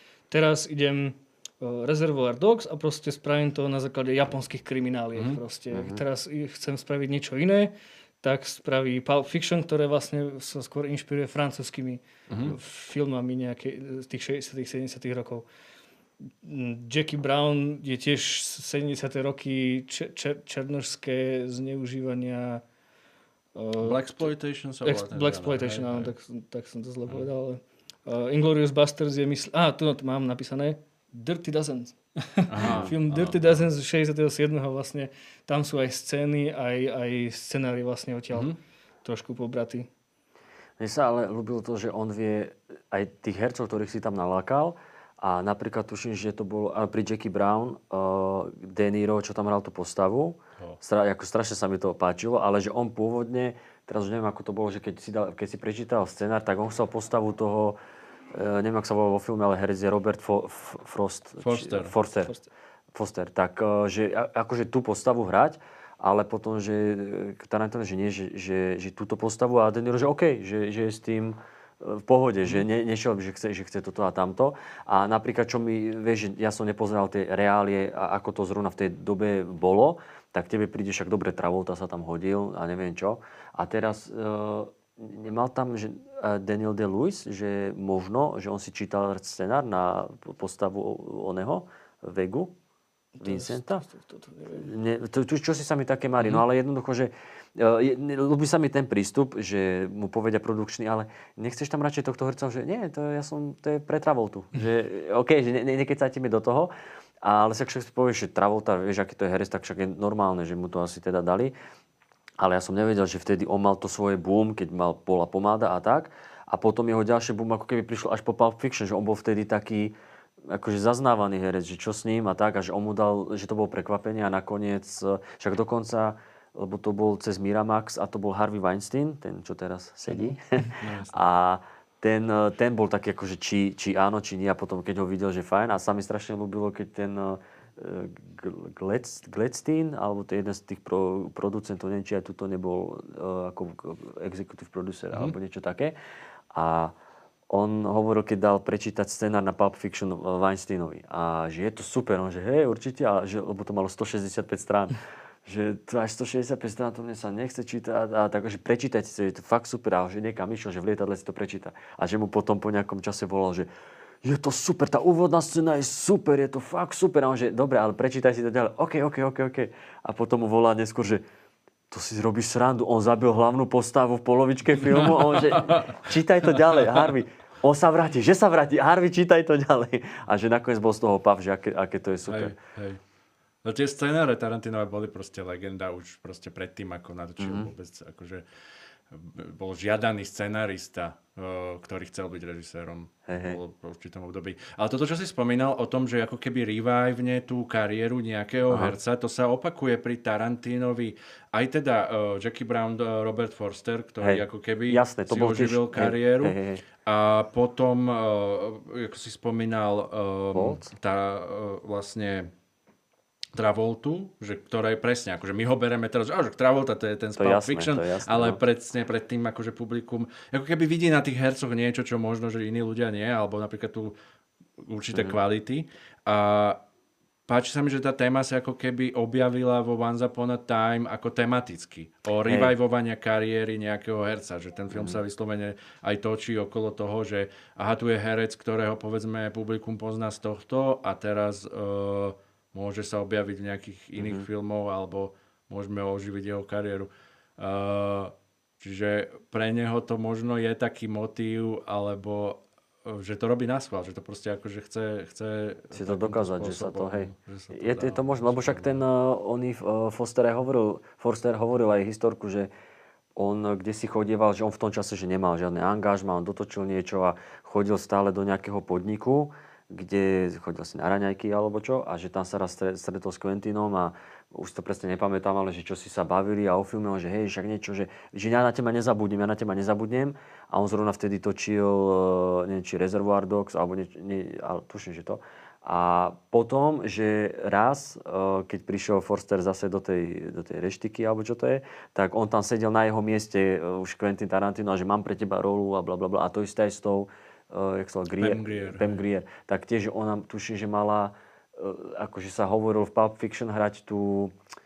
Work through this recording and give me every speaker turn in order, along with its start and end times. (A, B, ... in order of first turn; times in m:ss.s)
0:00.3-0:15.5 A
0:05.2-0:05.4 B
0:05.7-0:06.0 C
0:12.3-0:12.6 B
0:16.4-0:22.6 A
0:23.6-0:24.1 A
0:23.8-0:26.1 B
0:24.8-0:39.9 A
0:32.5-0:33.7 B
0:32.6-0:32.9 C
0:38.3-0:38.6 B
0:40.8-0:57.8 C
0:58.3-1:02.3 C
1:01.4-1:02.0 B
1:02.2-1:02.5 A
1:02.9-1:32.5 C
1:33.2-1:34.7 A
1:33.2-1:33.8 C
1:34.5-1:46.7 C
1:47.2-1:51.6 C
1:52.4-2:00.0 C
2:00.5-2:26.0 C
2:10.8-2:11.2 B
2:26.5-2:26.9 C
2:27.5-2:43.7 C
2:44.2-2:51.2 C
2:51.9-3:02.6 C
2:54.8-2:56.0 B
2:56.5-2:57.1 B
3:02.3-3:03.0 B
3:03.6-3:08.4 B
3:07.4-3:07.7 C
3:09.1-3:32.5 B
3:13.3-3:13.6 C
3:18.7-3:19.0 C
3:24.2-3:26.8 C
3:30.5-3:30.9 C
3:33.5-3:44.2 B
3:37.4-3:38.6 C
3:44.8-3:46.8 B
3:47.5-4:19.0 B
3:52.5-3:52.7 C
3:54.9-3:55.2 C
4:04.2-4:04.5 C
4:15.9-4:22.7 C
4:23.4-5:04.5 C
4:58.4-4:59.2 B